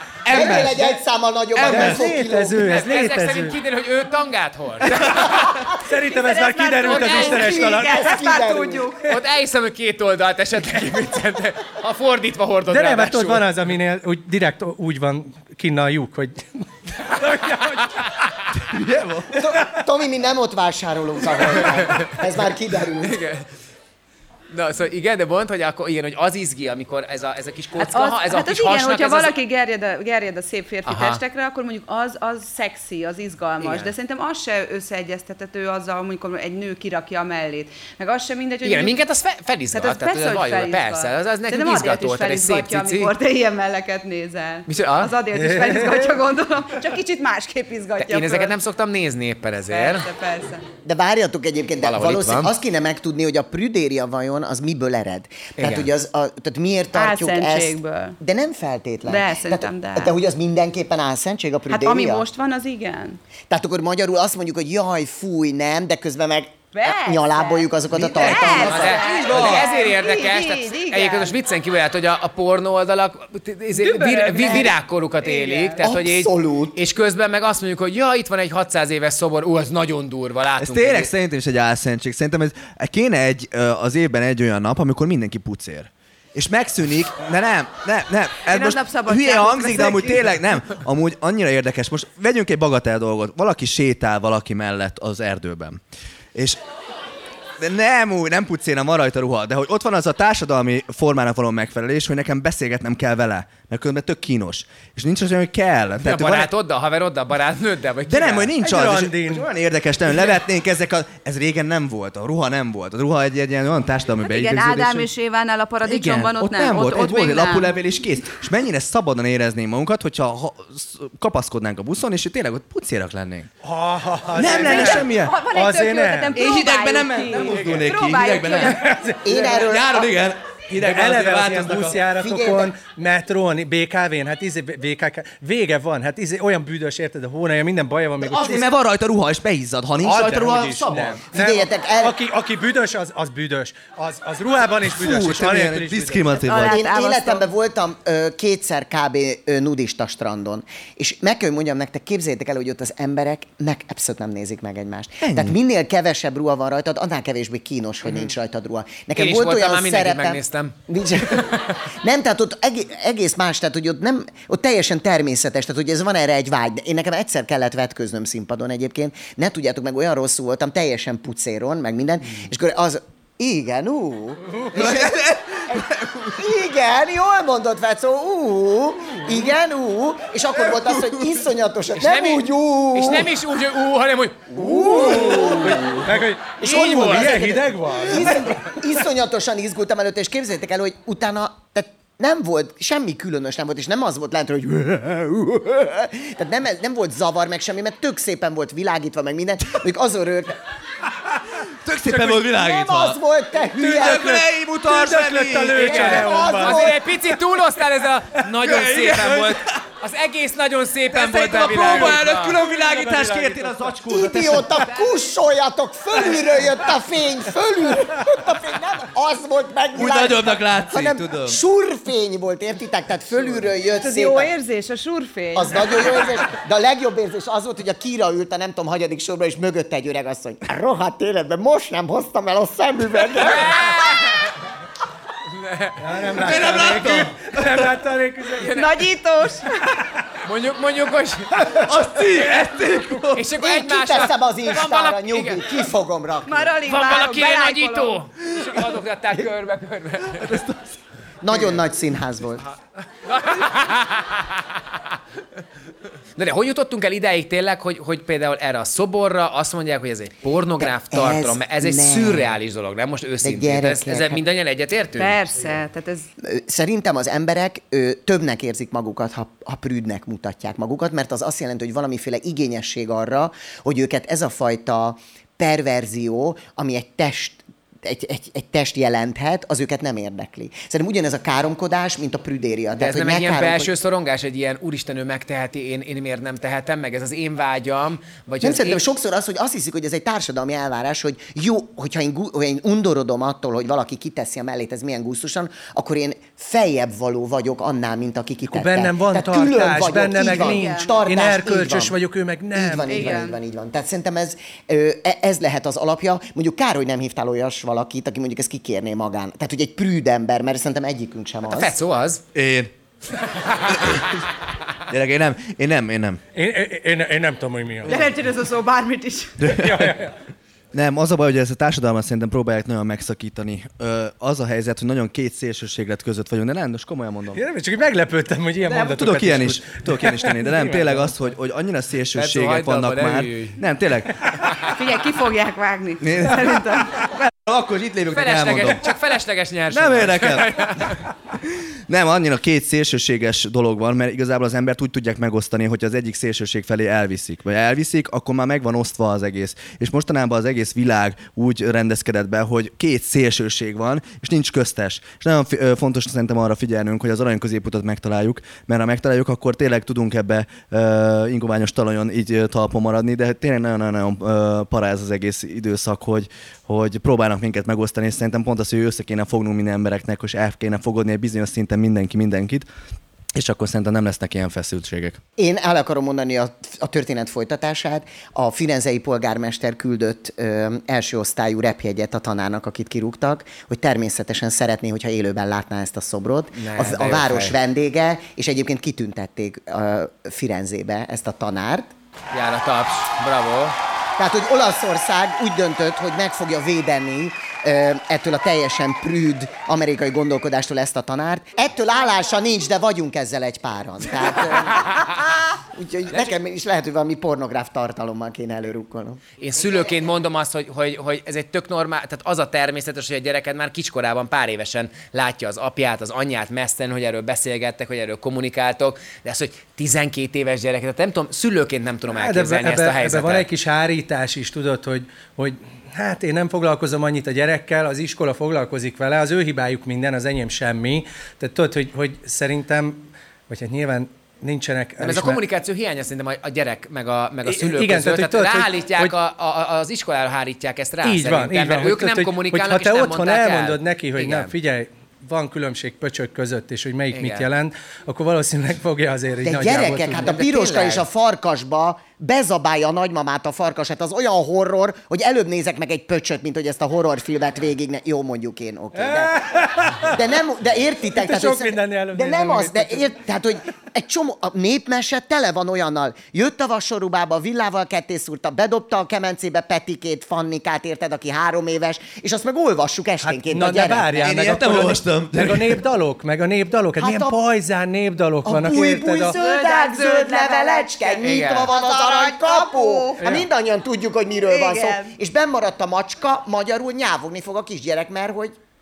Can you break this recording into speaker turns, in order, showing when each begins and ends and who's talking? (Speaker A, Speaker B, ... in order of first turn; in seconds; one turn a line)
Speaker A: 0.2-1.0
Speaker B: 0.3-2.7
Speaker A: 1.6-2.2
Speaker C: 1.6-3.6
Speaker D: 2.6-5.7
Speaker C: 5.8-8.1
Speaker E: 6.1-9.1
Speaker D: 6.8-7.4
Speaker B: 7.2-8.9
Speaker D: 9.1-13.5
Speaker C: 12.7-18.1
Speaker D: 17.5-18.1
Speaker A: 18.6-19.4
Speaker B: 19.3-23.2
Speaker D: 21.7-22.1
Speaker D: 23.0-23.4
Speaker D: 24.5-29.4
Speaker E: 27.8-39.0
Speaker D: 30.9-31.2
Speaker D: 33.6-33.9
Speaker D: 38.6-43.1
Speaker E: 39.7-48.5
Speaker D: 44.7-45.1
Speaker C: 45.4-46.1
Speaker D: 48.0-50.1
Speaker E: 49.7-50.6
Speaker B: 50.9-62.3
Speaker D: 51.8-52.5
Speaker D: 55.6-55.9
Speaker E: 56.9-58.2
Speaker E: 59.1-60.1
Speaker E: 61.7-63.2
Speaker B: 63.5-69.7
Speaker E: 66.7-71.4
Speaker D: 68.2-81.1
Speaker E: 73.7-75.8
Speaker B: 75.8-76.8
Speaker A: 80.6-95.8
Speaker E: 88.5-90.3
Speaker A: 96.3-96.6
Speaker A: 97.6-106.5
Speaker D: 106.0-108.5
Speaker A: 108.1-115.1
Speaker C: 108.6-109.5
Speaker E: 114.2-117.8
Speaker A: 115.8-123.5
Speaker C: 123.6-126.4
Speaker A: 124.3-125.4
Speaker E: 124.5-128.9
Speaker A: 126.3-132.0
Speaker C: 128.8-129.5
Speaker B: 129.2-130.2
Speaker C: 130.8-138.7
Speaker B: 132.1-132.7
Speaker A: 138.2-141.2
Speaker C: 140.0-146.3
Speaker B: 141.3-142.1
Speaker A: 144.8-146.8
Speaker E: 146.4-147.5
Speaker B: 146.7-183.3
Speaker A: 155.2-155.6
Speaker D: 159.2-161.8
Speaker A: 174.7-176.3
Speaker D: 182.0-185.4
Speaker B: 184.5-200.6
Speaker A: 184.7-186.0
Speaker C: 184.7-185.5
Speaker C: 186.0-188.8
Speaker A: 201.6-203.2
Speaker B: 202.3-204.4
Speaker A: 203.7-206.6
Speaker C: 204.0-206.9
Speaker B: 205.8-207.0
Speaker D: 205.9-212.6
Speaker A: 208.5-209.8
Speaker A: 211.1-214.9
Speaker C: 211.7-213.8
Speaker B: 214.1-224.5
Speaker A: 219.9-221.6
Speaker E: 224.0-226.1
Speaker B: 225.6-234.1
Speaker D: 233.4-234.6
Speaker D: 235.4-236.0
Speaker C: 236.0-238.7
Speaker A: 236.3-237.9
Speaker D: 238.6-238.9
Speaker E: 238.7-240.0
Speaker D: 240.4-241.9
Speaker A: 241.7-243.4
Speaker D: 242.4-242.6
Speaker D: 243.3-245.7
Speaker B: 243.6-246.7
Speaker E: 246.5-248.2
Speaker D: 246.9-250.6
Speaker A: 250.3-251.0
Speaker B: 251.4-252.6
Speaker D: 252.7-254.7
Speaker D: 256.4-265.4
Speaker B: 260.8-262.5
Speaker B: 263.4-264.4
Speaker E: 265.2-266.3
Speaker B: 266.4-283.9
Speaker D: 282.9-289.0
Speaker B: 288.6-302.1
Speaker C: 298.7-303.4
Speaker E: 300.5-301.2
Speaker B: 302.7-311.9
Speaker E: 303.1-303.6
Speaker D: 311.7-312.4
Speaker A: 312.5-312.9
Speaker D: 313.6-314.0
Speaker A: 313.8-314.5
Speaker A: 315.1-316.4
Speaker C: 316.6-318.3
Speaker E: 318.1-319.6
Speaker A: 319.6-320.3
Speaker C: 319.7-320.3
Speaker A: 320.9-327.6
Speaker C: 327.5-331.4
Speaker A: 328.8-334.6
Speaker D: 332.4-333.8
Speaker E: 334.9-337.2
Speaker A: 336.2-339.2
Speaker D: 338.3-341.2
Speaker A: 339.9-372.9
Speaker A: 373.5-375.4
Speaker B: 375.6-392.1
Speaker D: 386.8-387.8
Speaker D: 392.5-394.0
Speaker B: 394.4-409.4
Speaker D: 405.0-405.3
Speaker D: 409.6-423.7
Speaker C: 422.3-435.6
Speaker D: 435.2-444.7
Speaker C: 437.6-439.3
Speaker C: 441.2-450.5
Speaker D: 447.3-447.7
Speaker B: 449.6-474.5
Speaker D: 450.3-451.3
Speaker C: 459.2-460.4
Speaker C: 461.3-463.3
Speaker C: 473.4-479.6
Speaker A: 474.4-476.0
Speaker B: 477.2-477.6
Speaker B: 478.6-488.8
Speaker E: 479.4-483.4
Speaker D: 481.4-481.9
Speaker C: 483.4-483.7
Speaker E: 484.7-485.4